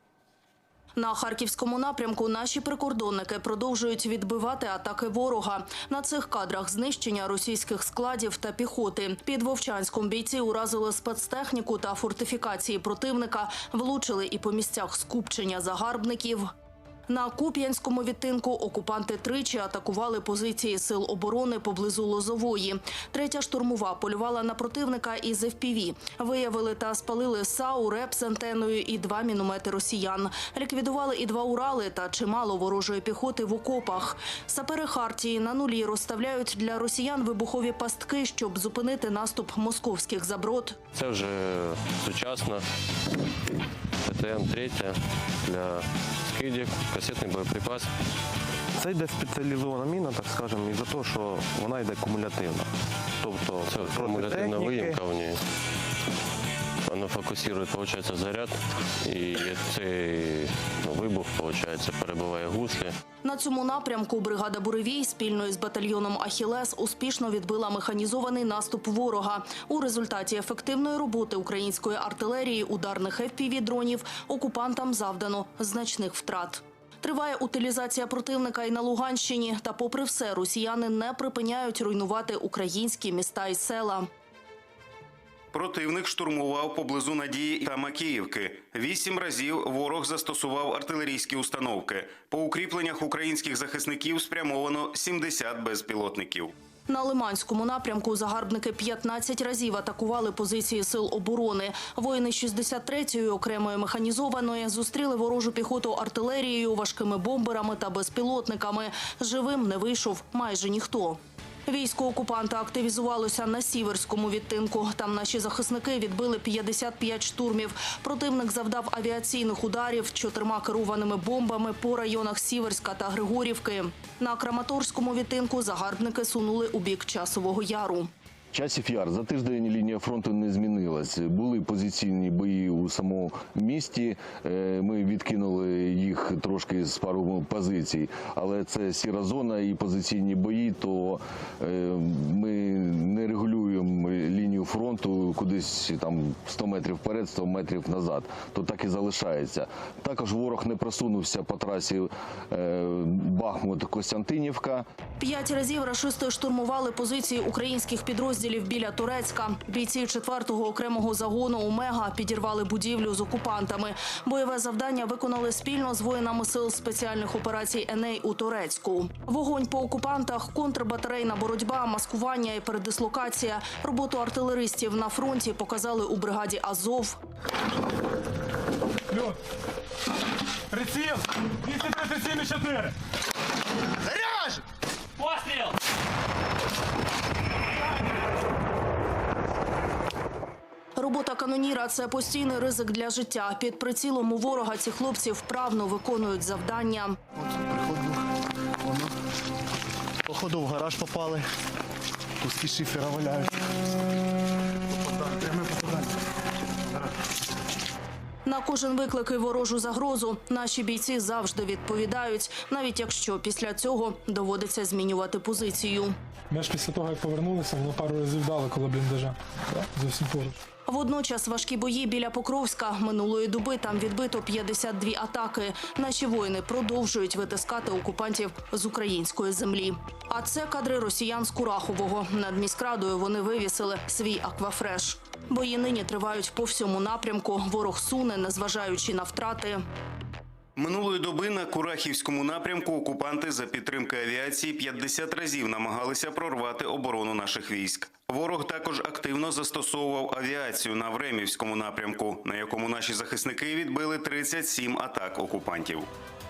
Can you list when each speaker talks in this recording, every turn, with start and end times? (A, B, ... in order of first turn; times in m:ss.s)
0:01.0-0:16.5 A
0:17.1-0:40.8 A
0:40.9-0:42.6 B
0:44.0-0:47.9 B
0:48.8-0:55.0 C
0:53.6-0:55.4 B
0:56.9-1:03.0 B
1:03.2-1:24.1 A
1:25.5-1:36.5 D
1:36.9-2:08.1 A
2:08.5-2:34.8 E
2:35.2-2:57.2 A
2:59.1-2:59.4 F
3:00.7-3:02.9 F
3:11.0-3:17.2 A
3:17.5-3:18.2 G
3:20.2-3:21.5 G
3:22.4-3:23.6 G
3:25.2-3:26.1 G
3:28.4-3:36.2 A
3:36.5-3:40.6 F
3:40.9-3:59.8 A
4:00.8-4:16.1 D